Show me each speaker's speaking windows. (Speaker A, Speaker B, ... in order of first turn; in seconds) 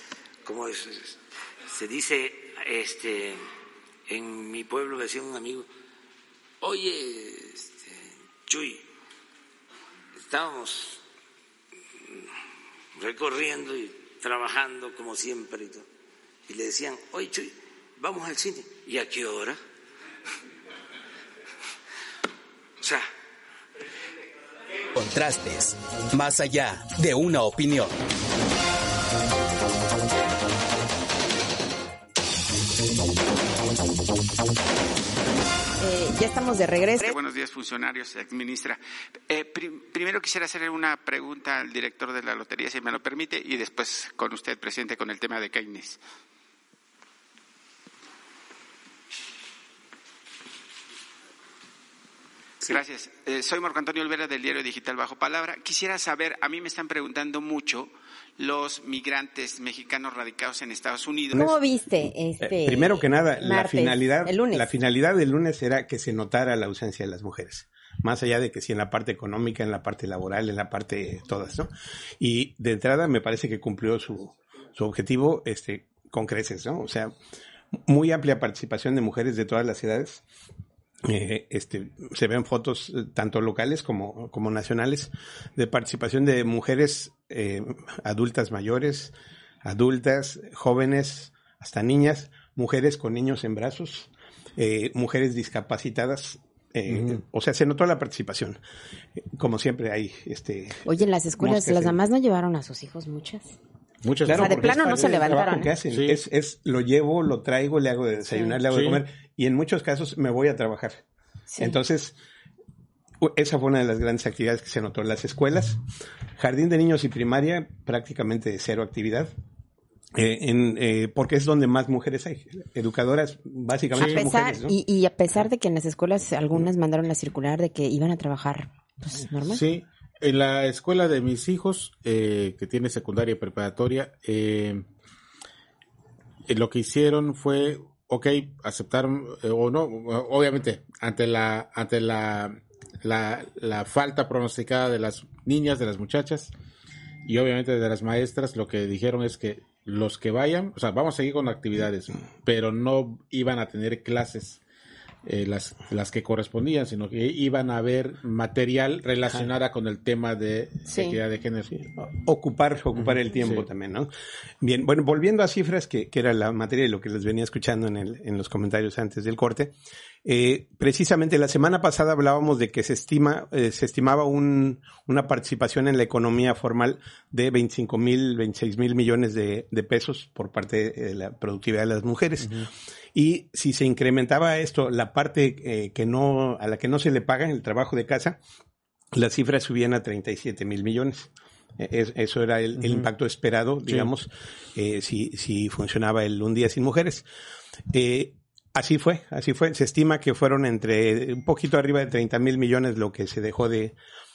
Speaker A: 0.4-3.4, 4.1-5.7, 6.6-8.8, 10.2-11.0, 12.9-15.9, 16.5-19.6, 22.8-23.1
Speaker B: 24.9-27.9
Speaker C: 35.8-37.2, 61.3-64.7, 100.9-103.5, 104.4-105.7, 111.5-111.8, 123.9-129.6, 160.9-161.2
Speaker D: 37.0-46.0, 52.6-61.5
Speaker E: 62.5-77.1, 77.9-80.2, 81.0-89.1, 89.6-98.6, 99.3-100.9, 101.4-102.0, 104.2-111.0, 111.6-112.2, 113.2-115.8, 116.4-119.3, 120.1-124.8, 161.7-164.1, 164.6-169.7, 170.2-188.4, 189.1-197.2, 197.9-203.9
Speaker F: 96.9-97.2, 104.0-106.2, 108.7-109.0, 123.9-124.2, 129.4-134.8, 136.5-146.5, 147.2-154.6, 155.2-161.7, 163.0-163.7, 192.8-193.1, 193.9-194.1